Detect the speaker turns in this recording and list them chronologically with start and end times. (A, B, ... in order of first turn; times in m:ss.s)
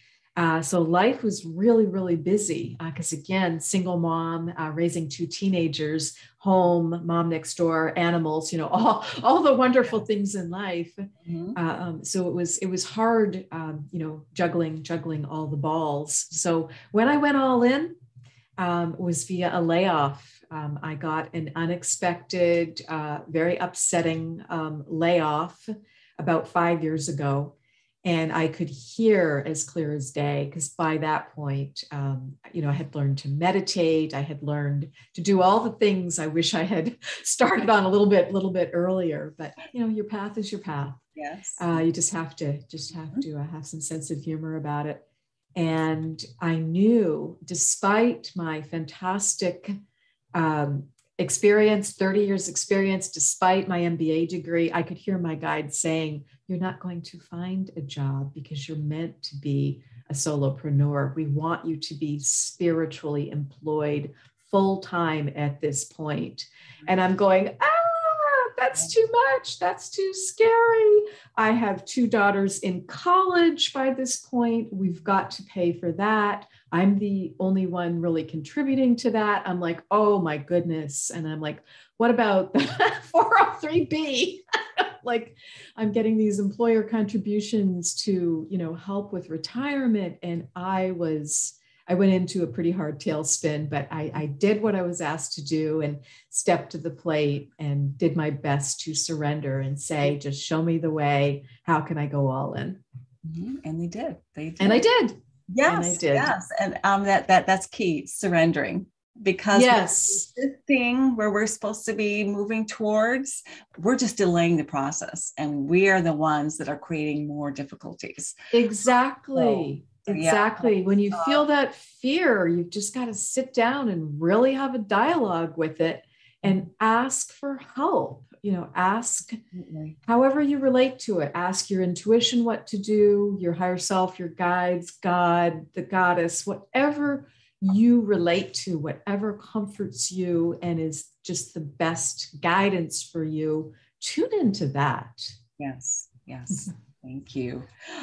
0:00.4-0:17.9 A
0:11.3-0:11.6 B
0:18.6-0:41.0 A
0:41.2-0:41.6 B
0:41.6-0:45.0 A
0:45.6-0:49.8 A
0:50.3-1:42.8 A
1:43.2-1:44.8 B
1:44.6-1:46.3 A
1:45.5-1:58.4 B
1:49.5-1:50.3 A
1:58.5-2:09.4 A
1:59.4-2:01.4 B
2:09.5-2:10.0 B
2:10.0-2:25.4 A
2:25.6-2:27.7 B